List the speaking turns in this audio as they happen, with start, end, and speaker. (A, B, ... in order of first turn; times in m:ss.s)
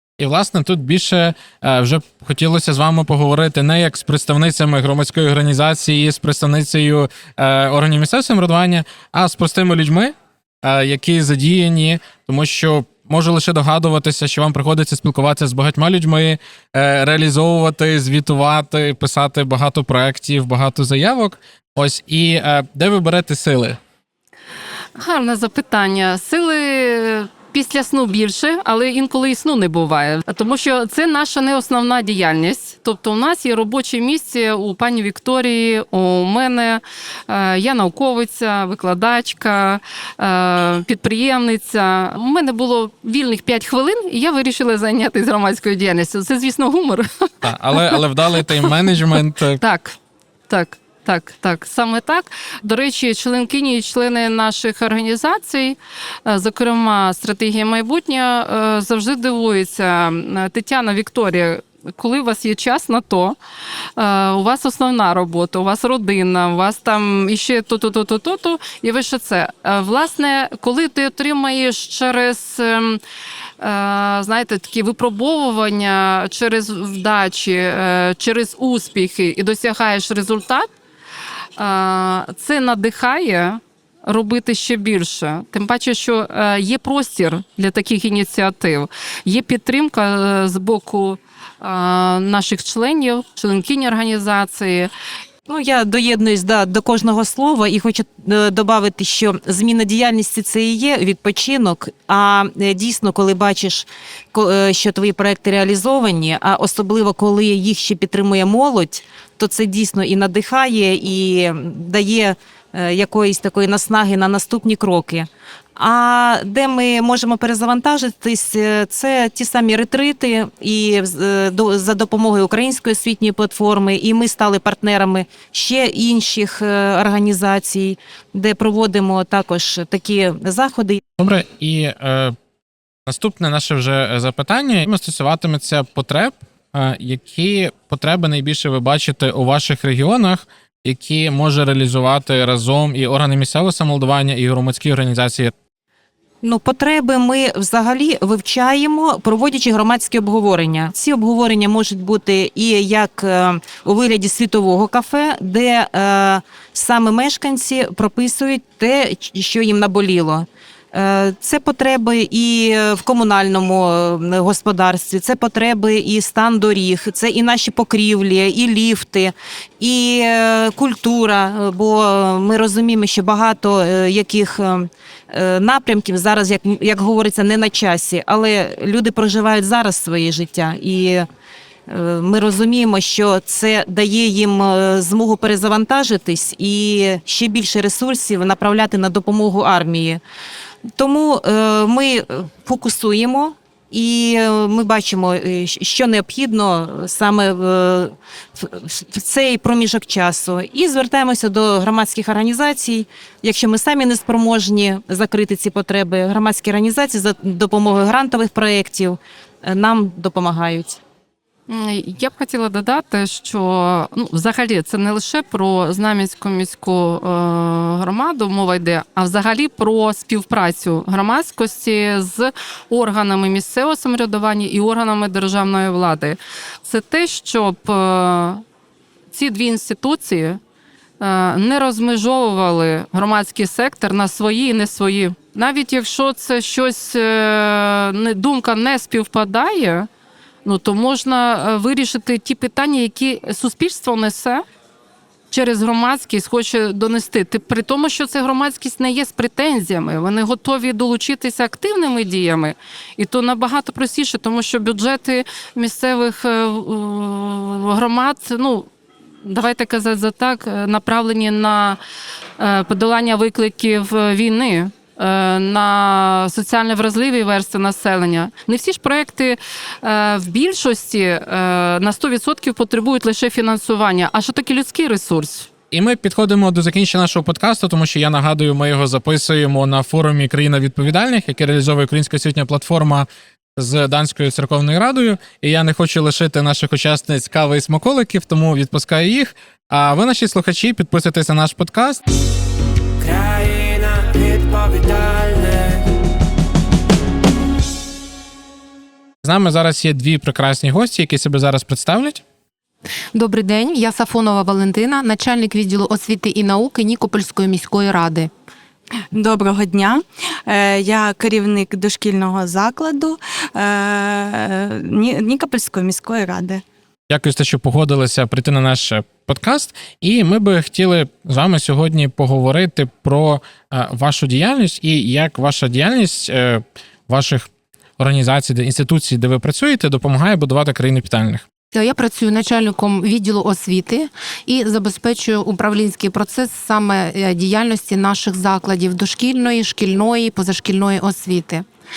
0:00.2-0:23.8 A
0:25.0-0:48.0 B
0:47.4-0:49.6 A
0:49.6-0:50.0 B
0:50.5-1:03.4 B
1:04.0-1:13.0 B
1:13.6-1:20.7 B
1:21.6-1:34.9 B
1:35.5-2:11.0 C
2:11.2-2:12.4 A
2:13.1-2:25.5 A
2:26.4-3:01.3 C
3:01.9-3:10.2 C
3:11.0-3:31.0 C
3:31.7-3:48.6 B
3:49.3-3:50.6 B
3:51.2-4:00.1 B
4:00.6-4:04.6 B
4:05.5-4:18.9 B
4:19.4-4:22.0 B
4:22.6-4:35.7 B
4:35.9-4:52.2 A
4:53.3-4:55.5 A
4:59.4-5:02.4 A
5:03.3-5:08.5 D
5:09.3-5:16.8 E
5:17.3-5:27.7 A
5:28.2-5:31.6 A
5:31.9-5:41.9 D